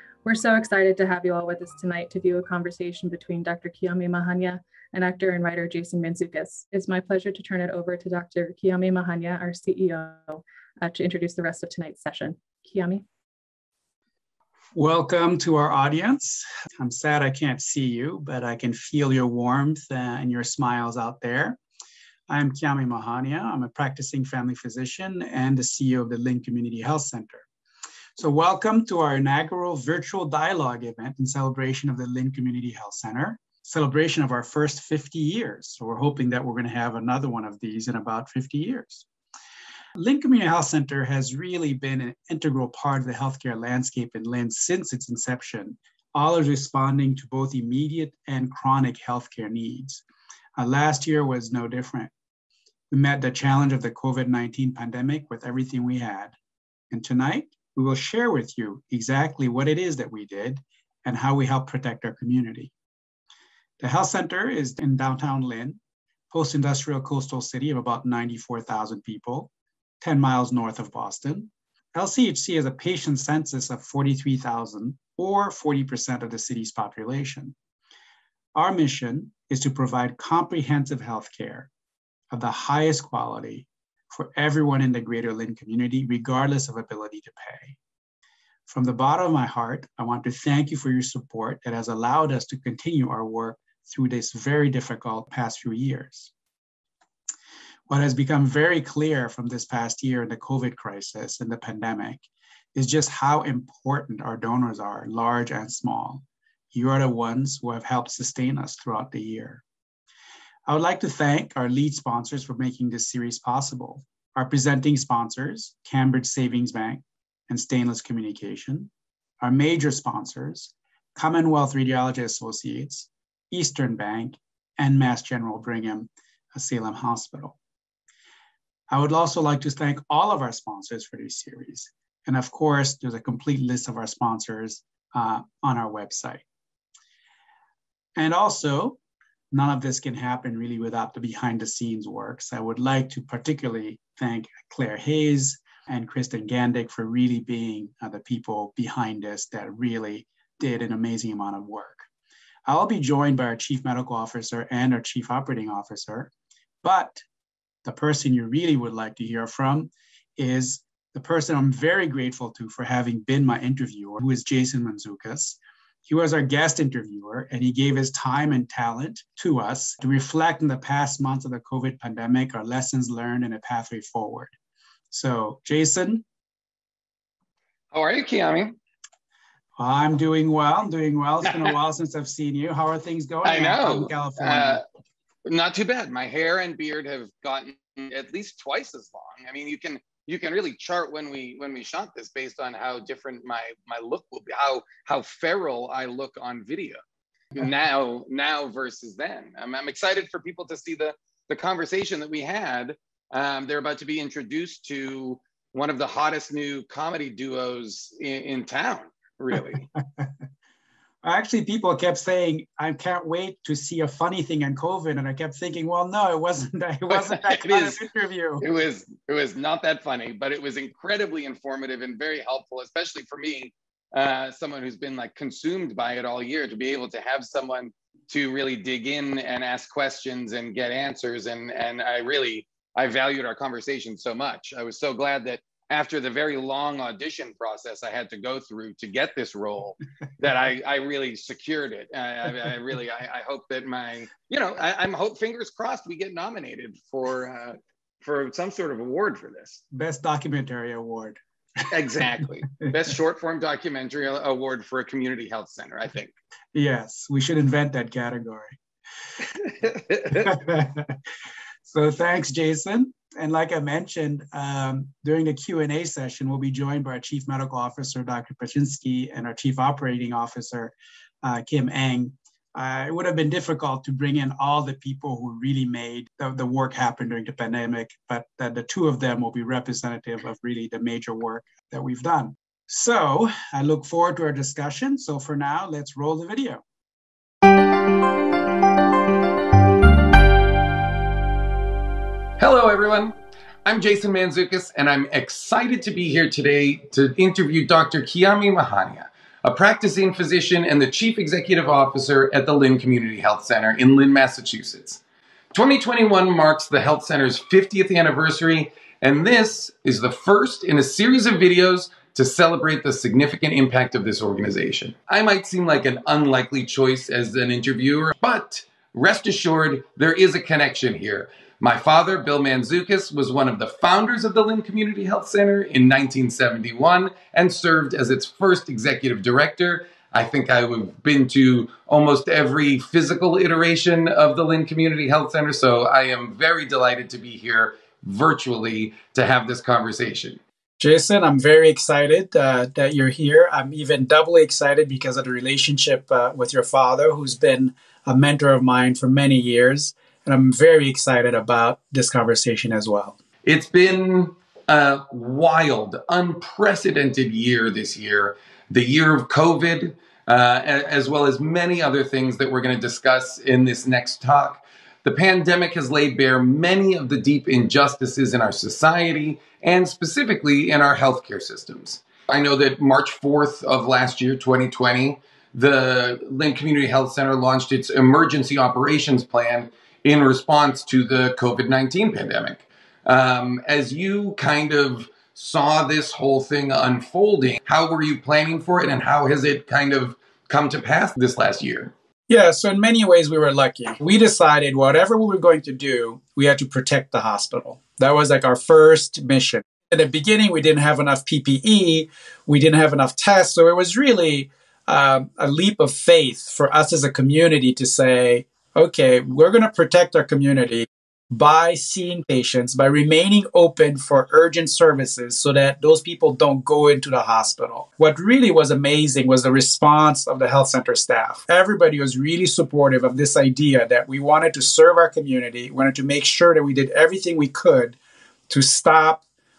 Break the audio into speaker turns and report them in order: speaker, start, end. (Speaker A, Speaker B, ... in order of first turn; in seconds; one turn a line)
Speaker A: 0.2-13.0
Speaker B: 14.8-21.6
Speaker B: 22.3-27.4
Speaker B: 28.2-39.1
Speaker B: 40.0-50.0
Speaker B: 50.6-52.1
Speaker B: 52.9-56.4
Speaker B: 56.9-62.7
Speaker B: 63.8-65.8
Speaker B: 66.3-69.5
Speaker B: 70.0-77.5
Speaker B: 78.5-81.7
Speaker B: 82.3-87.8
Speaker B: 88.7-96.3
Speaker B: 97.9-102.2
Speaker B: 102.8-109.6
Speaker B: 110.7-118.9
Speaker B: 119.4-127.6
Speaker B: 128.9-136.4
Speaker B: 138.2-139.0
Speaker B: 139.5-152.1
Speaker B: 152.7-156.3
Speaker B: 156.8-157.2
Speaker B: 157.8-174.5
Speaker B: 175.1-176.2
Speaker C: 177.9-178.8
Speaker B: 179.8-184.8
Speaker C: 183.4-184.8
Speaker C: 185.4-197.0
Speaker C: 197.6-209.9
Speaker B: 211.2-218.6
Speaker C: 217.1-218.0
Speaker C: 218.6-249.8
Speaker B: 249.9-251.4
Speaker C: 251.9-256.3
Speaker B: 256.7-258.8
Speaker C: 259.6-260.5
Speaker B: 260.3-261.2
Speaker B: 261.9-286.8
Speaker C: 292.6-293.3
Speaker C: 293.9-305.2
Speaker C: 305.7-340.6
Speaker B: 341.0-353.4
Speaker C: 353.6-392.1
Speaker B: 392.5-428.2
Speaker B: 428.7-429.4